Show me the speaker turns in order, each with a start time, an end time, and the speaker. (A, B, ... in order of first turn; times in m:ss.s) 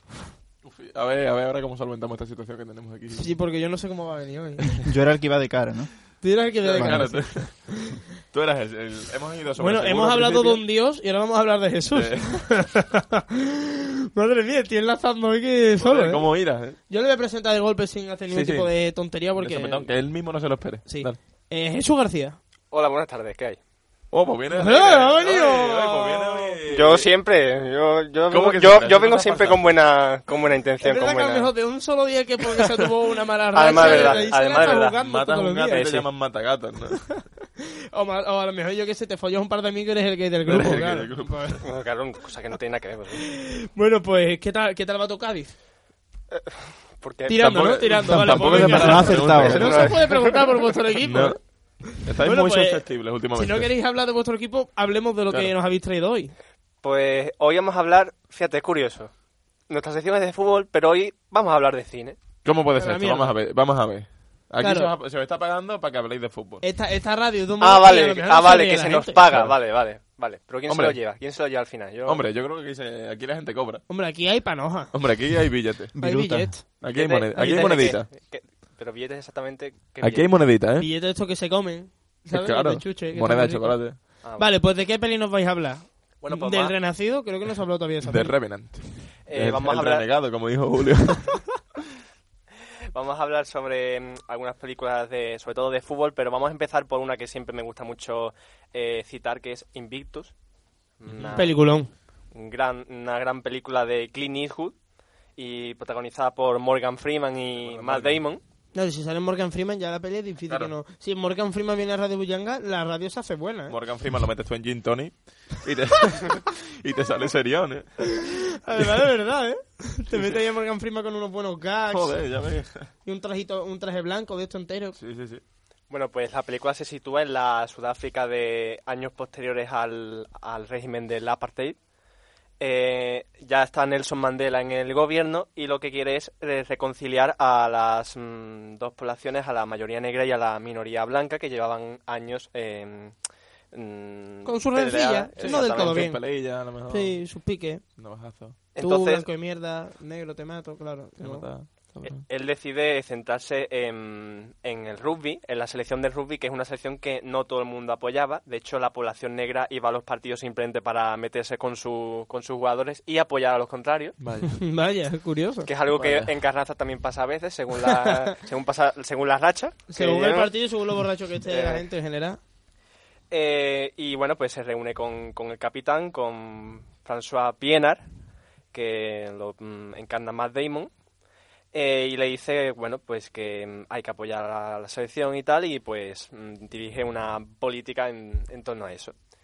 0:00.6-0:03.3 A
0:03.2-0:04.8 B
0:04.8-0:05.9 C
0:06.2-0:08.0 B
0:06.6-0:07.8 A
0:06.8-0:07.2 C
0:08.3-0:10.6 A
0:09.6-0:16.3 B
0:11.9-0:12.5 A
0:15.8-0:16.8 A
0:16.9-0:19.9 B
0:18.3-0:18.7 A
0:19.4-0:21.2 A
0:20.9-0:22.4 B
0:22.7-0:23.6 D
0:24.1-0:27.1 A
0:24.5-0:26.6 B
0:26.7-0:31.5 D
0:28.3-0:29.8 A
0:30.8-0:35.9 B
0:33.5-0:35.0 D
0:33.6-0:37.2 A
0:35.7-0:36.1 D
0:37.9-0:41.6 B
0:40.5-0:41.6 A
0:41.6-0:43.2 D
0:43.2-0:45.5 B
0:46.3-0:47.5 D
0:47.3-0:56.3 B
0:47.3-0:50.0 A
0:48.1-0:49.9 C
0:49.7-0:50.3 D
0:51.0-0:53.7 A
0:56.8-0:59.1 D
0:59.7-1:02.2 D
1:02.4-1:06.6 A
1:02.8-1:03.4 B
1:04.6-1:04.9 B
1:06.6-1:09.2 B
1:07.6-1:12.3 D
1:09.3-1:09.6 A
1:10.7-1:11.0 A
1:12.0-1:13.8 A
1:13.9-1:14.9 B
1:14.9-1:15.9 A
1:15.9-1:16.6 C
1:16.0-1:18.0 B
1:16.8-1:18.1 A
1:16.8-1:20.4 D
1:20.0-1:20.9 A
1:20.8-1:28.4 B
1:22.3-1:24.1 A
1:24.2-1:24.6 D
1:26.2-1:26.8 D
1:28.0-1:31.5 A
1:29.3-1:30.1 D
1:32.9-1:40.3 D
1:41.0-1:41.7 D
1:41.1-1:41.4 A
1:41.4-1:41.9 B
1:42.3-1:44.8 D
1:45.4-1:48.4 D
1:47.6-1:48.2 A
1:48.7-1:53.8 B
1:50.5-1:50.7 A
1:53.7-1:57.9 A
1:58.1-2:02.2 B
2:01.9-2:02.9 A
2:03.0-2:05.0 B
2:05.0-2:05.4 A
2:05.9-2:11.8 D
2:12.6-2:23.2 D
2:23.7-2:26.1 D
2:24.4-2:27.9 B
2:25.4-2:27.2 A
2:28.0-2:28.6 A
2:28.7-2:29.3 D
2:28.8-2:31.5 B
2:31.2-2:32.3 A
2:32.1-2:44.2 D
2:44.2-2:44.6 A
2:44.5-2:45.7 B
2:45.7-2:50.5 D
2:45.9-2:46.3 A
2:49.9-2:52.4 B
2:51.5-2:51.9 D
2:53.3-2:58.1 D
2:58.7-3:00.9 D
3:01.7-3:09.2 D